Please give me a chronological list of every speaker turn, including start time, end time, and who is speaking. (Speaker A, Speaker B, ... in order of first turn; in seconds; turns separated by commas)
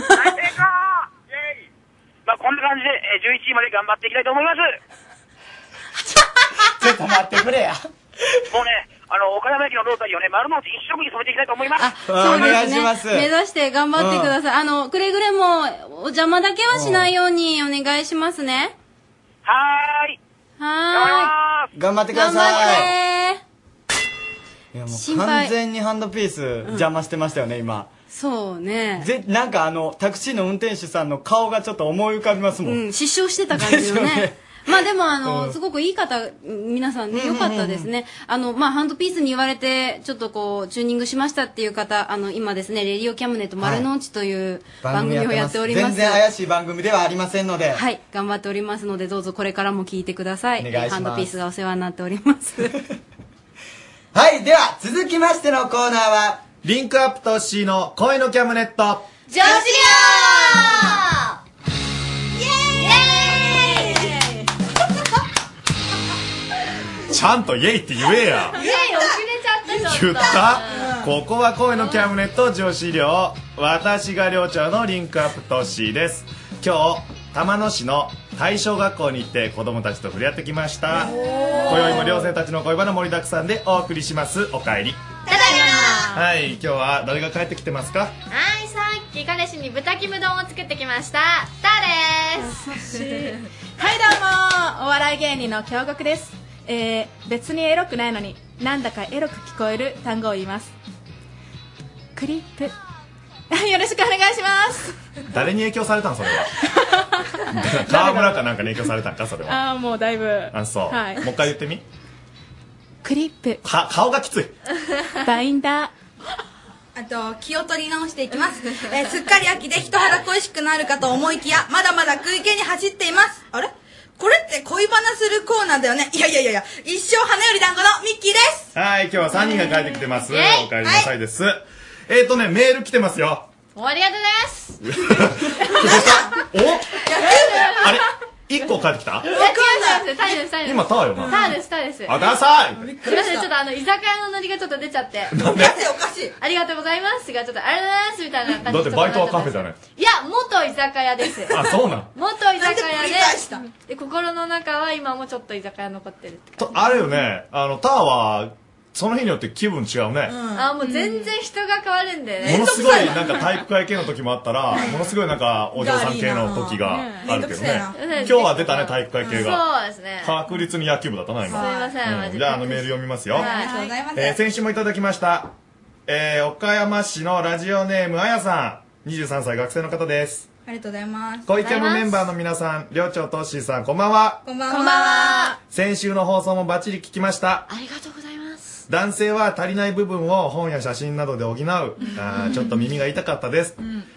Speaker A: 0.1-1.5, Speaker A: 2.2-4.8, Speaker B: 6.8-7.8, Speaker A: 8.5-11.9, Speaker C: 11.8-18.7, Speaker B: 12.0-13.3, Speaker B: 13.9-14.3, Speaker B: 16.7-17.1, Speaker A: 19.4-20.2, Speaker C: 20.6-21.3, Speaker A: 20.9-21.7, Speaker B: 21.7-22.9, Speaker C: 22.1-23.4, Speaker B: 24.7-27.9, Speaker C: 24.9-25.5, Speaker C: 28.1-29.1, Speaker B: 29.0-32.8, Speaker C: 32.6-46.2, Speaker B: 33.5-34.4, Speaker B: 35.2-35.6, Speaker B: 37.1-37.9, Speaker B: 43.6-43.9, Speaker B: 44.8-47.8, Speaker C: 47.7-52.8, Speaker B: 50.6-51.3, Speaker B: 54.1-56.5, Speaker D: 56.6-59.1, Speaker E: 59.3-61.0, Speaker F: 59.4-61.0, Speaker F: 62.4-64.2, Speaker E: 62.8-64.2, Speaker D: 67.1-68.6, Speaker F: 68.5-69.2, Speaker E: 68.5-71.0, Speaker D: 69.8-81.1, Speaker F: 70.2-71.1, Speaker F: 80.9-82.1, Speaker E: 81.4-82.0, Speaker D: 81.6-85.0, Speaker F: 85.3-86.1, Speaker E: 85.3-86.2, Speaker D: 86.1-88.1, Speaker E: 88.3-92.6, Speaker G: 92.4-100.7, Speaker G: 102.1-102.7, Speaker G: 103.5-105.0, Speaker D: 105.3-106.5, Speaker D: 107.5-109.7, Speaker G: 107.9-108.5, Speaker G: 109.5-111.3, Speaker D: 110.5-111.8, Speaker G: 113.0-113.6, Speaker D: 113.6-114.5, Speaker G: 115.2-115.9, Speaker F: 116.9-128.7, Speaker D: 128.7-133.5, Speaker F: 129.4-129.6, Speaker E: 130.3-130.7, Speaker F: 130.8-131.1, Speaker E: 133.7-134.8, Speaker D: 134.8-136.9, Speaker F: 135.8-136.3, Speaker F: 137.0-137.9, Speaker E: 137.3-137.9, Speaker D: 137.7-139.3, Speaker F: 139.3-140.4, Speaker E: 139.3-142.2, Speaker D: 140.6-141.4, Speaker F: 141.2-141.5, Speaker D: 142.1-143.0, Speaker F: 142.8-143.4, Speaker E: 143.0-145.3, Speaker D: 145.3-145.8, Speaker F: 145.4-146.3, Speaker E: 146.4-156.7, Speaker D: 148.6-149.8, Speaker D: 151.5-152.1, Speaker F: 152.6-153.7, Speaker D: 156.6-160.4, Speaker F: 160.3-161.3, Speaker E: 160.5-163.1, Speaker F: 162.4-163.4, Speaker D: 162.4-169.6, Speaker F: 164.7-165.1, Speaker F: 165.8-168.4, Speaker G: 166.8-167.3, Speaker E: 167.9-170.4, Speaker F: 169.2-169.5, Speaker D: 170.2-173.5, Speaker E: 171.5-173.8, Speaker F: 171.5-172.0, Speaker F: 173.3-174.4, Speaker G: 173.5-174.0, Speaker D: 174.1-175.5, Speaker D: 176.1-180.5, Speaker F: 180.6-181.5, Speaker D: 181.4-184.5, Speaker E: 181.6-182.1, Speaker F: 184.4-185.5, Speaker G: 184.7-185.6, Speaker E: 184.9-185.4, Speaker D: 185.7-187.7, Speaker E: 187.7-188.8, Speaker D: 188.9-193.8, Speaker F: 192.0-192.7, Speaker F: 193.8-194.0